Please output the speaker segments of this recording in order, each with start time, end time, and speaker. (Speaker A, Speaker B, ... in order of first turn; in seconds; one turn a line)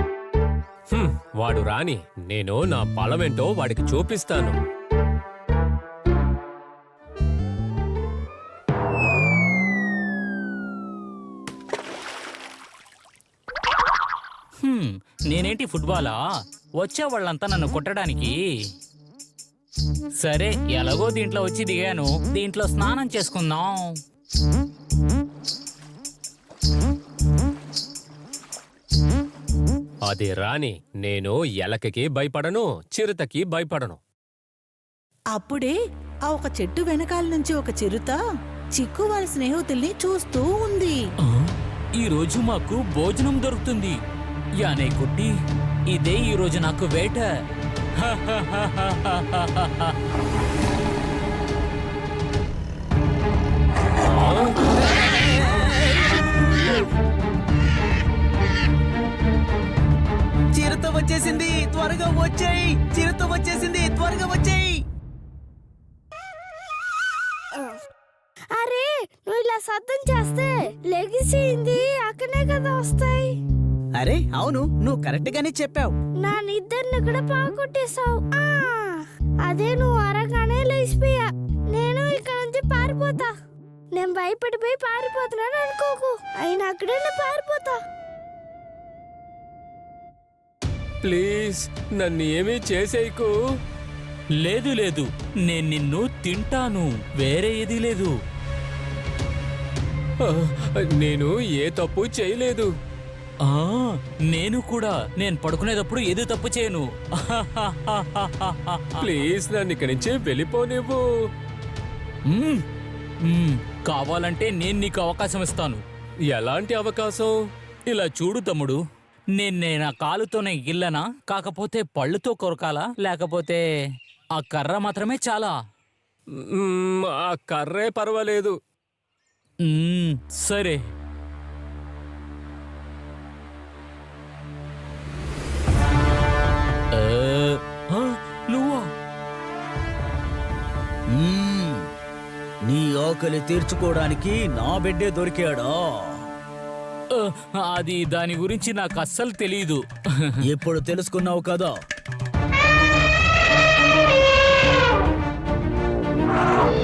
Speaker A: 0.9-4.6
Speaker B: 14.6-16.2
Speaker B: 16.8-18.4
Speaker B: 20.2-23.9
Speaker A: 30.1-34.0
Speaker C: 35.3-35.7
Speaker C: 36.3-38.2
Speaker C: 38.7-41.0
Speaker B: 41.2-44.0
Speaker B: 44.6-45.3
Speaker B: 45.9-47.3
Speaker B: 48.0-49.9
Speaker A: 54.0-54.5
Speaker D: 55.0-56.2
Speaker D: 60.5-64.8
Speaker E: 68.5-73.3
Speaker D: 74.0-75.9
Speaker E: 76.2-83.3
Speaker E: 83.9-87.8
Speaker A: 91.0-93.3
Speaker B: 94.4-98.1
Speaker A: 100.2-102.7
Speaker B: 103.4-109.1
Speaker A: 109.0-111.0
Speaker B: 112.3-112.6
Speaker B: 113.2-115.8
Speaker A: 116.3-117.3
Speaker B: 117.9-118.8
Speaker B: 119.3-123.6
Speaker B: 124.3-125.6
Speaker A: 126.3-128.6
Speaker B: 129.6-130.8
Speaker B: 136.9-138.9
Speaker D: 141.1-141.9
Speaker D: 142.7-146.2
Speaker B: 147.1-150.4
Speaker D: 150.5-151.7